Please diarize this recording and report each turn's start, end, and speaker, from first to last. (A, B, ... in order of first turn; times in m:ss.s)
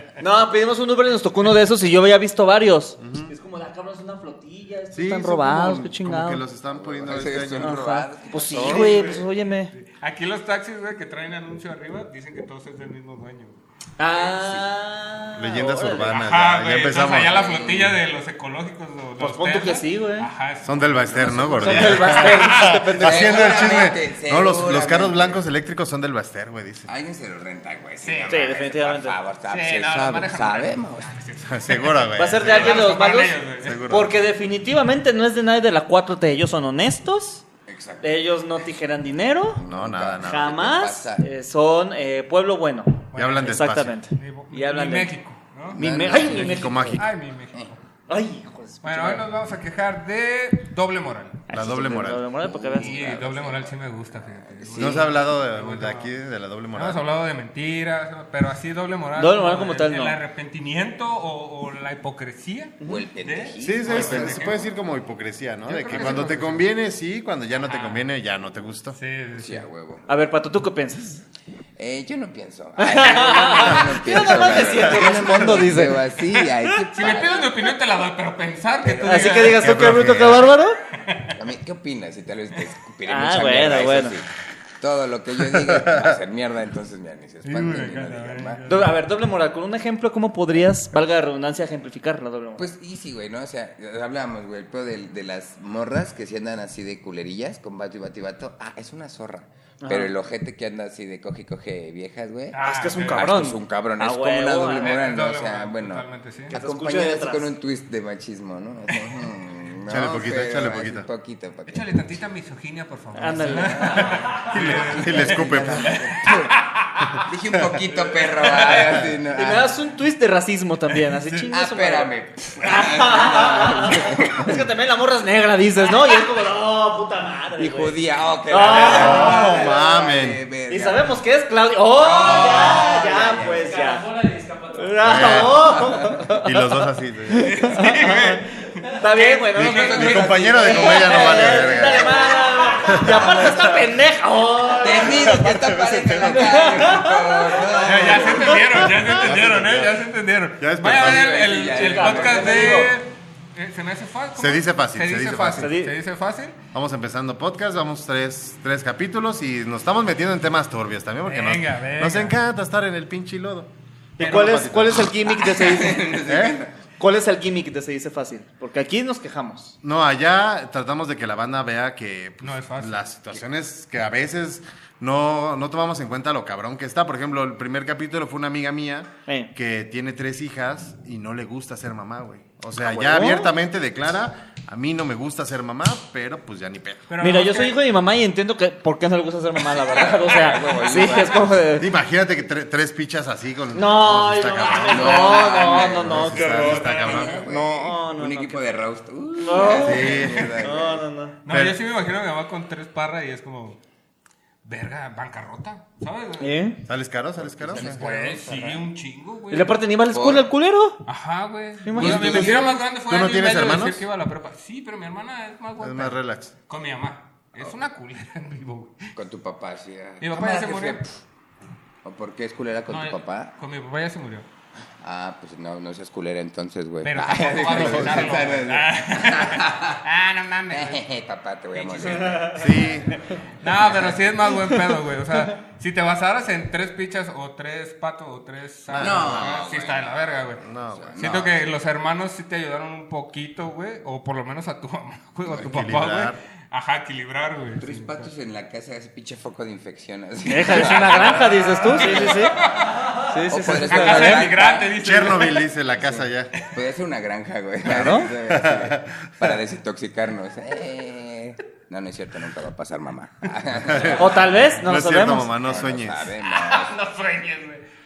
0:00.2-0:06.4 A
0:03.0-0:03.3 B
0:04.9-0:07.8 B
0:06.7-0:09.2 C
0:07.6-0:09.7 A
0:08.6-0:13.6 D
0:14.0-0:16.2 A
0:14.2-0:14.7 C
0:15.4-0:17.4 B
0:16.2-0:22.7 D
0:17.2-0:18.0 C
0:19.2-0:20.3 A
0:20.6-0:26.9 B
0:21.2-0:22.1 C
0:21.5-0:23.7 A
0:23.0-0:25.4 C
0:26.8-0:31.1 C
0:28.0-0:28.6 D
0:28.3-0:29.2 A
0:29.5-0:33.8 D
0:31.4-0:32.9 B
0:32.2-0:33.4 A
0:33.6-0:34.1 B
0:33.9-0:37.4 A
0:37.7-0:38.1 C
0:38.0-0:39.6 A
0:39.5-0:41.3 C
0:39.6-0:40.6 B
0:40.2-0:45.1 A
0:43.1-0:45.8 D
0:43.1-0:44.0 B
0:45.7-0:47.7 C
0:45.7-0:46.9 A
0:45.8-0:47.0 B
0:46.9-0:47.8 D
0:48.1-0:49.2 A
0:48.8-0:51.4 D
0:51.5-0:52.2 B
0:51.5-0:53.6 A
0:52.4-0:55.1 C
0:52.8-0:56.1 D
0:54.8-0:57.0 B
0:56.7-1:04.6 D
0:59.2-1:00.2 A
1:02.8-1:03.1 A
1:02.8-1:04.5 C
1:03.6-1:09.0 B
1:05.6-1:06.6 D
1:07.6-1:08.0 D
1:08.9-1:09.6 D
1:09.3-1:10.1 C
1:10.1-1:11.2 A
1:11.8-1:17.6 C
1:12.8-1:16.0 A
1:14.7-1:15.4 B
1:16.9-1:19.7 D
1:18.8-1:19.5 C
1:19.0-1:20.8 A
1:19.6-1:20.5 B
1:21.0-1:21.3 D
1:21.3-1:28.6 C
1:23.0-1:24.2 A
1:25.6-1:26.2 B
1:27.4-1:28.9 D
1:28.7-1:32.7 A
1:32.6-1:51.9 C
1:39.8-1:40.1 A
1:42.5-1:43.5 D
1:42.6-1:44.9 A
1:44.7-1:46.5 D
1:46.5-1:47.5 A
1:48.9-1:49.2 D
1:49.8-1:51.1 B
1:51.7-1:57.3 D
1:53.1-1:54.2 A
1:53.7-1:56.6 C
1:54.0-1:56.0 B
1:57.2-1:59.7 C
1:58.1-1:59.0 D
1:59.3-2:09.8 A
2:01.5-2:04.7 C
2:07.6-2:11.1 C
2:08.7-2:10.4 B
2:10.7-2:14.1 A
2:12.0-2:13.6 C
2:12.2-2:12.7 B
2:12.4-2:13.0 E
2:13.5-2:15.2 E
2:14.7-2:16.5 A
2:15.0-2:15.7 B
2:15.7-2:16.2 C
2:16.3-2:17.6 B
2:17.3-2:18.4 A
2:17.4-2:21.4 D
2:18.9-2:25.6 A
2:19.6-2:22.2 B
2:20.1-2:20.4 C
2:21.4-2:21.6 C
2:22.7-2:23.8 B
2:24.7-2:28.6 C
2:25.1-2:26.4 B
2:26.2-2:28.6 A
2:27.8-2:36.6 D
2:28.7-2:31.4 B
2:30.9-2:32.9 C
2:31.8-2:32.9 A
2:34.4-2:35.7 B
2:35.6-2:35.9 A
2:36.7-2:45.1 B
2:41.2-2:42.4 D
2:44.2-2:46.2 A
2:45.2-2:46.7 C
2:46.2-2:46.6 B
2:47.0-2:49.7 A
2:49.8-3:07.1 B
2:52.4-2:53.4 D
3:02.8-3:03.5 A
3:07.1-3:07.8 D
3:07.2-3:11.9 A
3:09.7-3:11.4 D
3:10.1-3:11.6 C
3:11.8-3:17.4 B
3:13.7-3:18.6 A
3:14.9-3:21.0 C
3:16.6-3:17.4 D
3:19.4-3:21.4 A
3:19.8-3:20.6 B
3:20.2-3:20.5 D
3:21.4-3:23.8 D
3:21.5-3:21.8 B
3:24.6-3:26.6 D
3:26.4-3:26.8 A
3:26.9-3:28.0 B
3:27.5-3:28.0 C
3:27.7-3:28.8 A
3:27.7-3:29.8 D
3:29.5-3:31.0 A
3:30.1-3:30.4 C
3:31.0-3:39.1 D
3:31.8-3:32.6 A
3:31.9-3:34.0 B
3:32.1-3:32.4 C
3:35.8-3:36.5 B
3:39.1-3:41.1 C
3:40.2-3:41.0 D
3:42.0-3:43.5 C
3:42.9-3:44.4 D
3:45.0-3:50.0 C
3:47.0-3:51.0 D
3:47.7-3:48.4 B
3:50.7-3:52.8 C
3:51.7-3:52.5 D
3:52.5-3:53.2 B
3:53.6-4:00.6 D
3:53.6-3:54.3 C
3:54.5-3:55.0 A
3:58.9-3:59.6 B
3:59.0-4:00.3 C
4:00.6-4:01.2 B
4:00.9-4:01.6 C
4:01.2-4:08.3 D
4:05.6-4:06.4 B
4:07.8-4:12.9 C
4:10.4-4:12.6 A
4:10.6-4:13.0 D
4:13.1-4:14.5 A
4:13.5-4:14.9 C
4:13.7-4:15.7 D
4:15.0-4:16.5 B
4:16.0-4:24.5 C
4:17.8-4:18.3 A
4:18.4-4:19.6 B
4:23.8-4:26.3 B
4:24.2-4:25.5 A
4:25.6-4:26.9 C
4:26.4-4:27.8 D